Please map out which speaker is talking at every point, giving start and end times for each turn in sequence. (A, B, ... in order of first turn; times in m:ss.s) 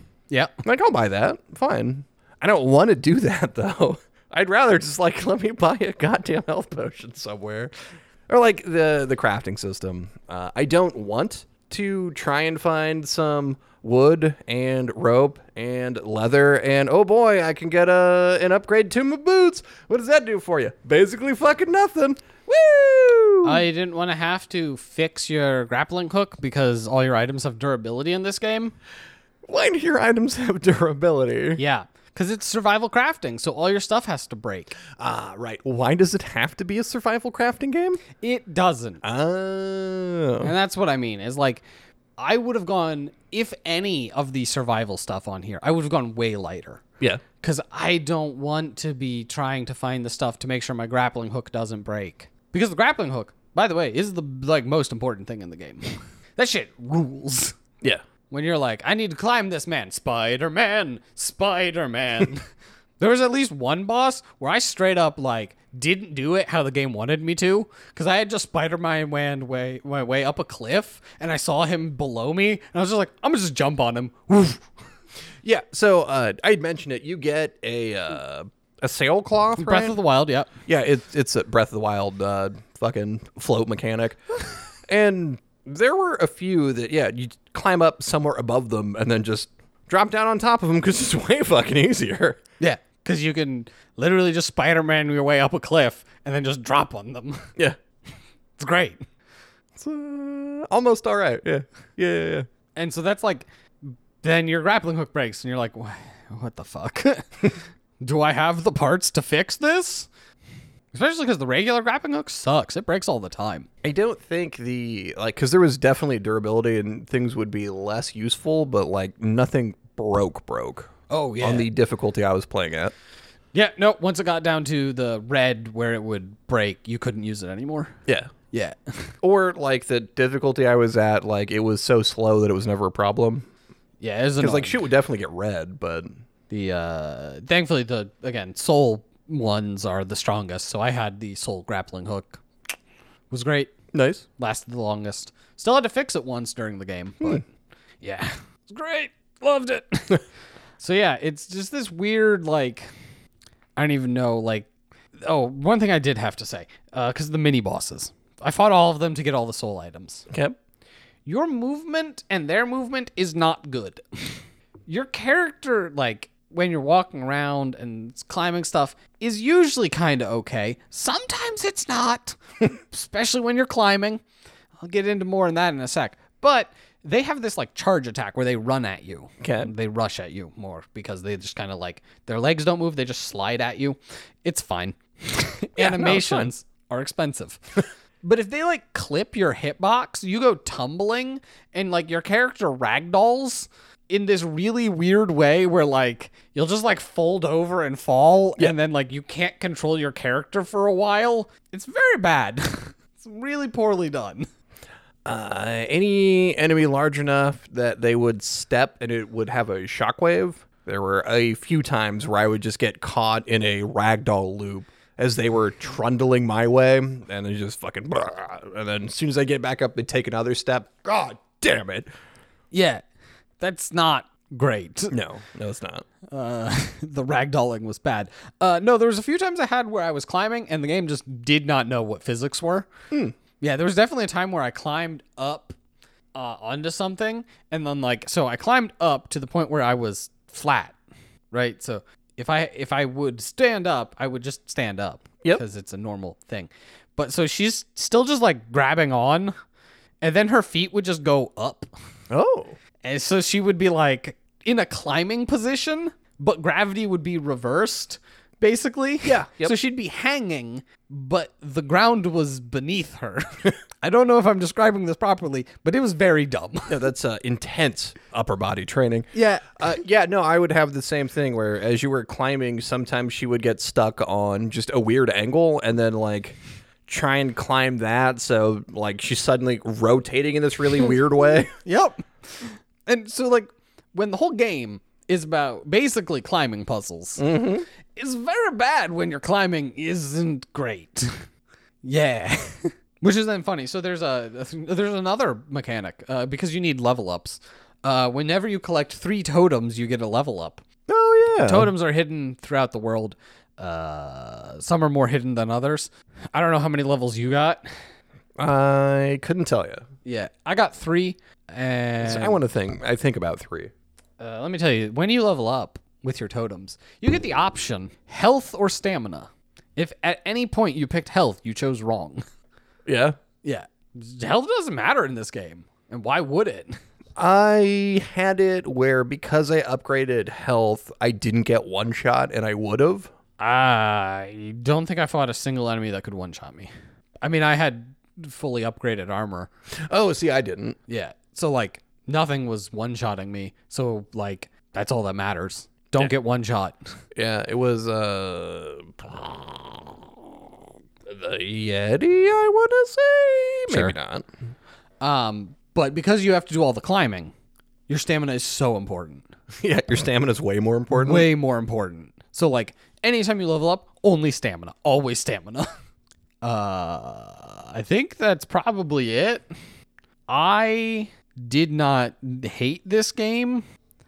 0:00.3-0:00.6 A
0:00.6-0:07.7 B
0:08.3-0:23.6 B
0:23.4-0:28.7 A
0:29.4-0:31.6 B
0:31.6-0:34.8 A
0:35.0-0:38.0 B
0:38.2-0:39.0 A
0:39.0-0:40.5 B
0:40.4-0:41.6 A
0:42.2-0:46.8 A
0:47.4-0:57.6 A
0:58.3-1:02.5 A
1:03.0-1:14.6 A
1:15.4-1:20.0 B
1:19.6-1:20.5 A
1:20.7-1:24.2 B
1:24.9-1:32.4 B
1:32.6-1:37.5 A
1:38.6-1:39.0 A
1:39.7-1:42.4 B
1:42.8-1:50.1 A
1:50.9-1:53.7 A
1:53.8-2:02.9 B
2:01.1-2:01.7 A
2:03.5-2:08.0 A
2:08.1-2:08.3 B
2:08.5-2:09.1 A
2:09.2-2:13.4 B
2:14.0-2:14.8 A
2:14.4-2:16.1 B
2:16.5-2:22.4 A
2:23.3-2:23.7 A
2:23.9-2:24.2 B
2:24.4-2:27.5 A
2:28.0-2:30.2 A
2:30.8-2:32.9 A
2:33.8-2:34.7 A
2:35.2-2:40.3 A
2:40.3-2:40.6 B
2:41.2-2:54.2 A
2:54.8-3:24.5 A
2:59.4-2:59.7 B
3:05.8-3:06.5 B
3:25.2-3:42.1 B
3:42.7-3:43.0 A
3:43.6-3:45.2 A
3:45.1-3:46.0 B
3:46.3-3:52.9 A
3:53.6-3:55.8 A
3:56.3-4:01.0 A
4:01.5-4:09.5 A
4:10.2-4:11.9 A
4:12.3-4:12.8 B
4:13.0-4:27.0 A
4:19.2-4:19.7 B
4:26.9-4:41.7 B
4:29.3-4:29.8 A
4:41.8-4:47.5 A
4:47.4-4:47.9 B
4:48.1-4:51.5 A
4:52.0-5:00.8 A
5:01.1-5:01.9 B
5:01.6-5:08.0 A
5:08.6-5:10.0 B
5:10.2-5:12.6 A
5:12.2-5:13.9 B
5:14.4-5:22.4 A
5:23.0-5:23.4 B
5:23.6-5:27.0 A
5:27.4-5:33.3 B
5:33.6-5:36.9 A
5:37.4-5:39.7 A
5:40.1-5:41.0 B
5:41.1-5:47.1 A
5:47.3-5:50.6 B
5:51.2-5:54.5 B
5:53.9-5:54.1 A
5:55.2-5:57.5 A
5:58.1-5:59.5 A
5:59.8-6:01.5 B
6:01.1-6:05.9 A
6:06.6-6:09.6 A
6:10.5-6:13.8 A